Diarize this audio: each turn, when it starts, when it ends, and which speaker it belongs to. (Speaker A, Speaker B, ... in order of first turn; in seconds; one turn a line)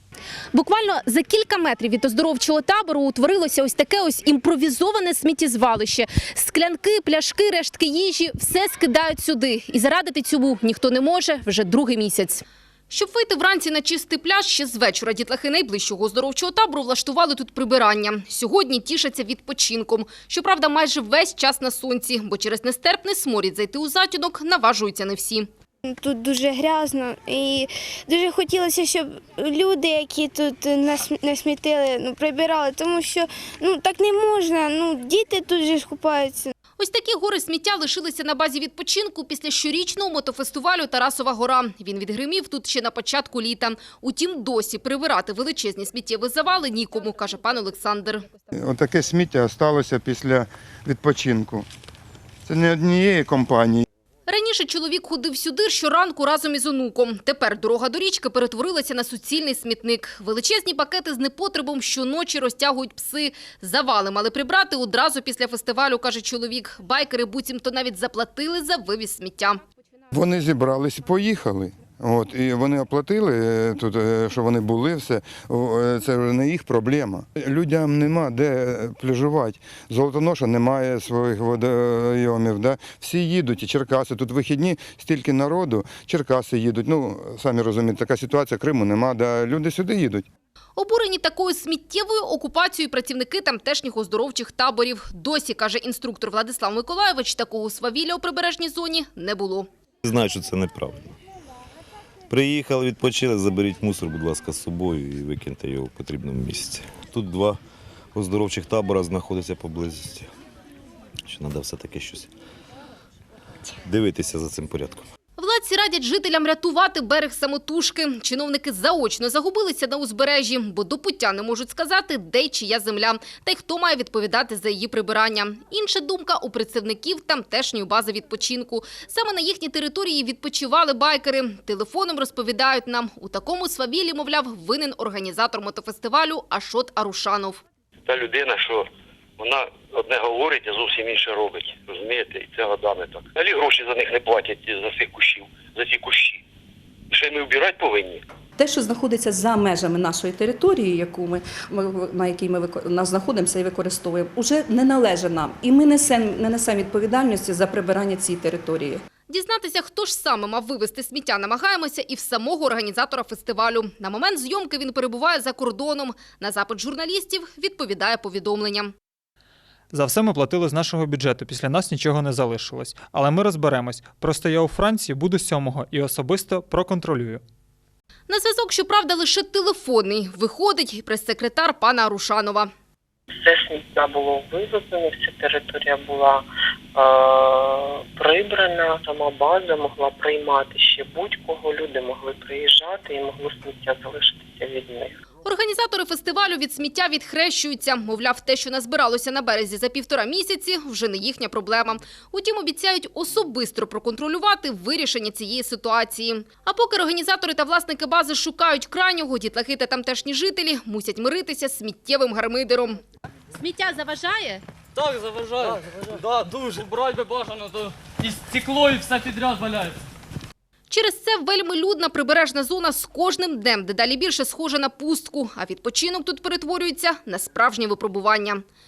Speaker A: 0.5-25.5
Speaker B: 25.9-36.5
Speaker A: 36.8-48.3
Speaker C: 48.5-51.7
Speaker C: 52.5-53.9
Speaker A: 54.3-69.6
Speaker C: 70.1-90.3
Speaker A: 90.8-99.7
Speaker D: 100.0-101.2
Speaker D: 102.3-107.6
Speaker D: 108.1-110.3
Speaker D: 111.3-112.3
Speaker D: 113.8-115.0
Speaker A: 115.4-137.6
Speaker E: 138.1-138.9
Speaker E: 139.4-146.4
Speaker E: 147.1-148.2
Speaker F: 148.6-159.0
Speaker A: 159.3-168.9
Speaker G: 169.9-177.4
Speaker A: 178.3-182.7
Speaker H: 183.4-186.4
Speaker H: 187.0-195.1
Speaker A: 195.4-213.0
Speaker A: 213.6-214.6
Speaker I: 214.9-220.0
Speaker A: 220.9-228.6